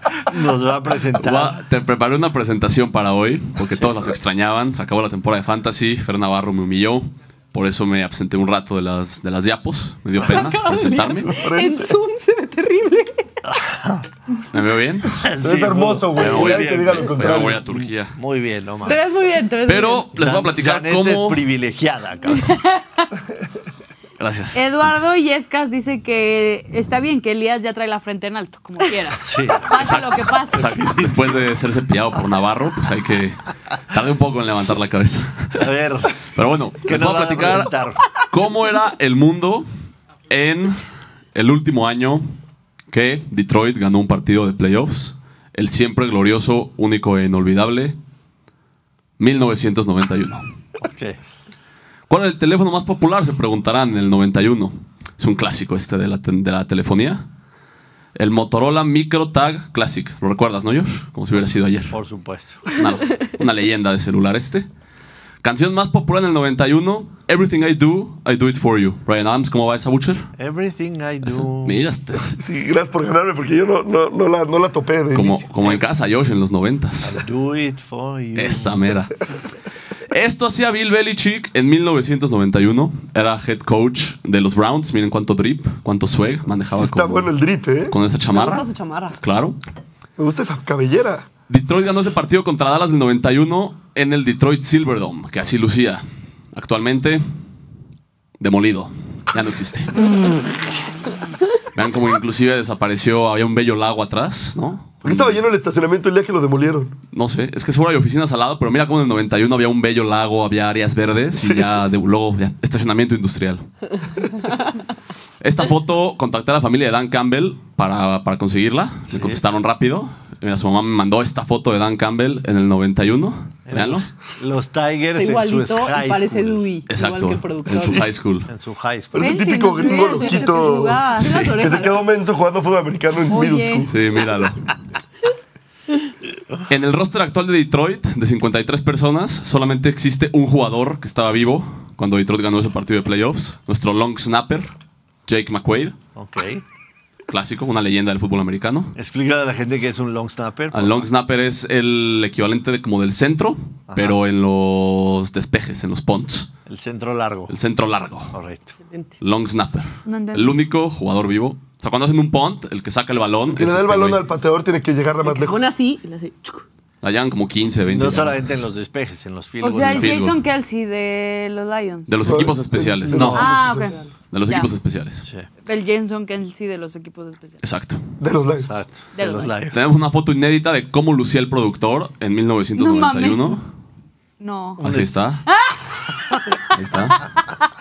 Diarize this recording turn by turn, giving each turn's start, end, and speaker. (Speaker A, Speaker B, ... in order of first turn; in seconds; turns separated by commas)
Speaker A: 0.2-1.6, Speaker B: 1.1-11.3, Speaker C: 10.2-13.3, Speaker D: 11.1-12.0, Speaker A: 13.5-14.1, Speaker B: 14.5-15.2, Speaker A: 15.1-19.1, Speaker D: 15.4-17.6, Speaker B: 16.1-18.2, Speaker C: 18.8-20.1, Speaker B: 19.6-21.4, Speaker A: 20.1-22.6, Speaker E: 22.3-23.0, Speaker B: 24.2-25.0, Speaker E: 24.5-30.9, Speaker A: 29.2-29.7, Speaker B: 29.7-35.7, Speaker A: 35.6-36.3, Speaker B: 36.3-37.7, Speaker A: 36.8-38.2, Speaker B: 38.3-39.7, Speaker B: 40.3-40.8, Speaker B: 41.3-42.2, Speaker B: 42.9-48.0, Speaker B: 49.2-50.5, Speaker A: 50.8-51.2, Speaker B: 52.1-57.2, Speaker B: 58.1-62.0, Speaker A: 61.9-62.8, Speaker B: 62.7-64.7, Speaker B: 65.4-70.3, Speaker A: 70.3-71.8, Speaker B: 71.2-72.4, Speaker D: 72.3-75.5, Speaker B: 75.1-77.2, Speaker A: 77.0-78.8, Speaker B: 78.3-79.3, Speaker B: 80.1-87.3, Speaker D: 86.7-88.0, Speaker B: 87.9-88.7, Speaker C: 88.3-89.2, Speaker B: 89.2-89.6, Speaker D: 90.2-91.3, Speaker B: 91.5-97.2, Speaker B: 98.4-100.0, Speaker B: 101.7-105.4, Speaker D: 105.0-107.0, Speaker B: 107.1-113.7, Speaker B: 115.4-124.1, Speaker A: 119.1-119.4, Speaker A: 123.7-126.6, Speaker C: 125.2-128.1, Speaker B: 126.9-128.5, Speaker D: 127.8-128.1, Speaker A: 128.5-129.4, Speaker D: 129.1-131.0, Speaker E: 129.2-131.8, Speaker C: 129.7-132.0, Speaker B: 131.2-131.6, Speaker D: 131.6-134.0, Speaker E: 133.3-133.9, Speaker B: 133.9-134.7, Speaker B: 136.7-144.7, Speaker B: 145.2-146.0, Speaker A: 146.2-146.6, Speaker B: 147.3-148.9, Speaker A: 148.9-151.1, Speaker B: 150.7-156.5, Speaker A: 153.9-154.2, Speaker A: 156.7-157.5, Speaker B: 157.5-158.4, Speaker A: 158.3-158.8, Speaker C: 158.8-159.1, Speaker B: 159.2-164.2, Speaker E: 160.0-160.6, Speaker D: 163.5-165.7, Speaker C: 165.2-166.7, Speaker B: 167.0-168.6, Speaker A: 167.8-170.2, Speaker E: 169.6-172.1, Speaker B: 169.8-170.4, Speaker B: 172.1-173.5, Speaker D: 172.2-174.0, Speaker A: 173.1-173.4, Speaker E: 173.3-174.7, Speaker B: 174.3-175.3, Speaker E: 175.6-177.6, Speaker B: 177.6-178.0, Speaker D: 178.2-178.7, Speaker A: 178.6-179.8, Speaker E: 179.2-179.5, Speaker B: 179.7-183.7, Speaker E: 182.8-183.6, Speaker E: 184.4-184.8, Speaker B: 184.8-185.4, Speaker A: 184.8-185.2, Speaker E: 185.5-185.8, Speaker B: 186.7-187.3